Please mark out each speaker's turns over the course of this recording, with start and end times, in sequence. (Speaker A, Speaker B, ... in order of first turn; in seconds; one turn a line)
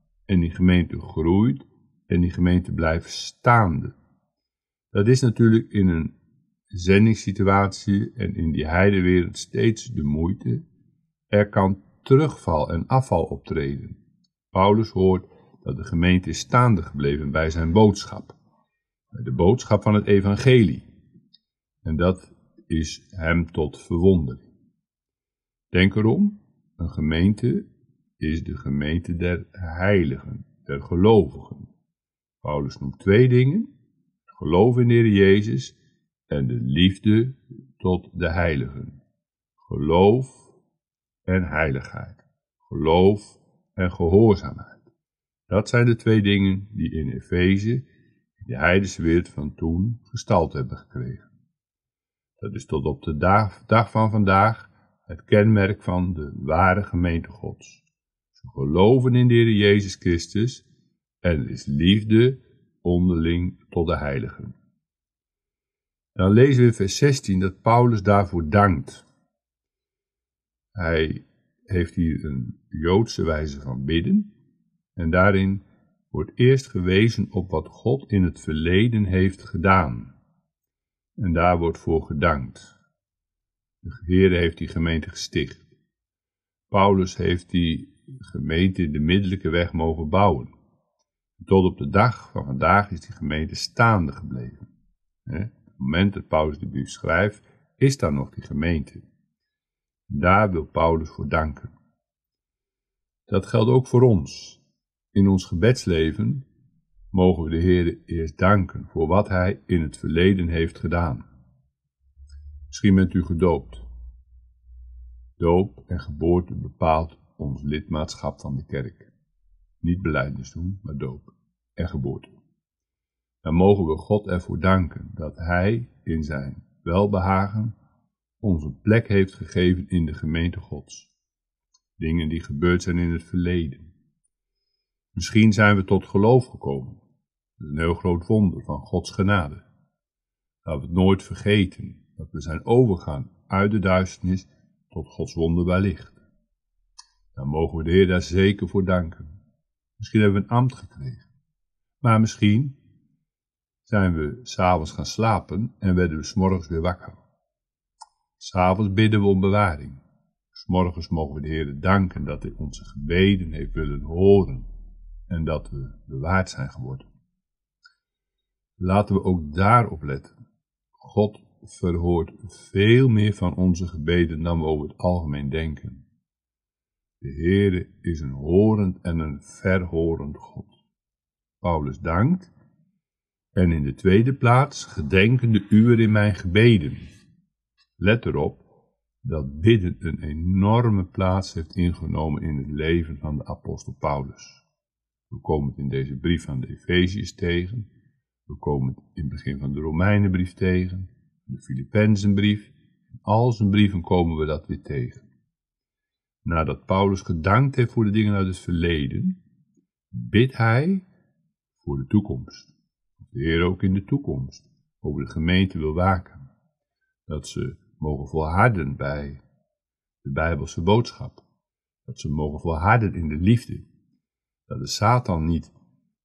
Speaker A: 0.3-4.0
Speaker A: 4.9-6.1
Speaker A: 6.7-10.6
Speaker A: 11.3-14.0
Speaker A: 14.5-18.4
Speaker A: 19.1-20.9
Speaker A: 21.8-24.5
Speaker A: 25.7-27.7
Speaker A: 28.2-31.7
Speaker A: 32.4-33.7
Speaker A: 34.3-35.8
Speaker A: 36.3-39.0
Speaker A: 39.6-40.5
Speaker A: 41.3-44.9
Speaker A: 45.5-47.9
Speaker A: 48.4-51.3
Speaker A: 52.4-60.7
Speaker A: 61.2-64.5
Speaker A: 66.2-69.1
Speaker A: 70.8-74.3
Speaker A: 75.0-80.2
Speaker A: 81.2-82.8
Speaker A: 83.8-85.7
Speaker A: 86.7-90.5
Speaker A: 91.4-94.7
Speaker A: 95.3-99.0
Speaker A: 100.1-101.7
Speaker A: 103.3-104.6
Speaker A: 105.1-106.5
Speaker A: 107.1-111.2
Speaker A: 112.7-113.9
Speaker A: 115.4-119.1
Speaker A: 119.8-122.3
Speaker A: 123.4-127.8
Speaker A: 128.4-131.1
Speaker A: 132.0-133.9
Speaker A: 135.1-137.0
Speaker A: 137.6-139.7
Speaker A: 140.7-146.2
Speaker A: 147.3-149.3
Speaker A: 150.0-151.3
Speaker A: 152.0-152.8
Speaker A: 153.9-157.2
Speaker A: 158.4-160.0
Speaker A: 160.5-164.7
Speaker A: 165.3-167.1
Speaker A: 168.8-170.4
Speaker A: 171.0-176.1
Speaker A: 177.2-180.8
Speaker A: 181.6-182.5
Speaker A: 183.6-187.1
Speaker A: 188.0-188.6
Speaker A: 189.2-194.7
Speaker A: 195.3-197.9
Speaker A: 198.5-205.3
Speaker A: 206.4-209.4
Speaker A: 210.1-211.1
Speaker A: 211.8-216.5
Speaker A: 217.3-219.4
Speaker A: 220.2-221.4
Speaker A: 222.1-223.9
Speaker A: 224.7-225.7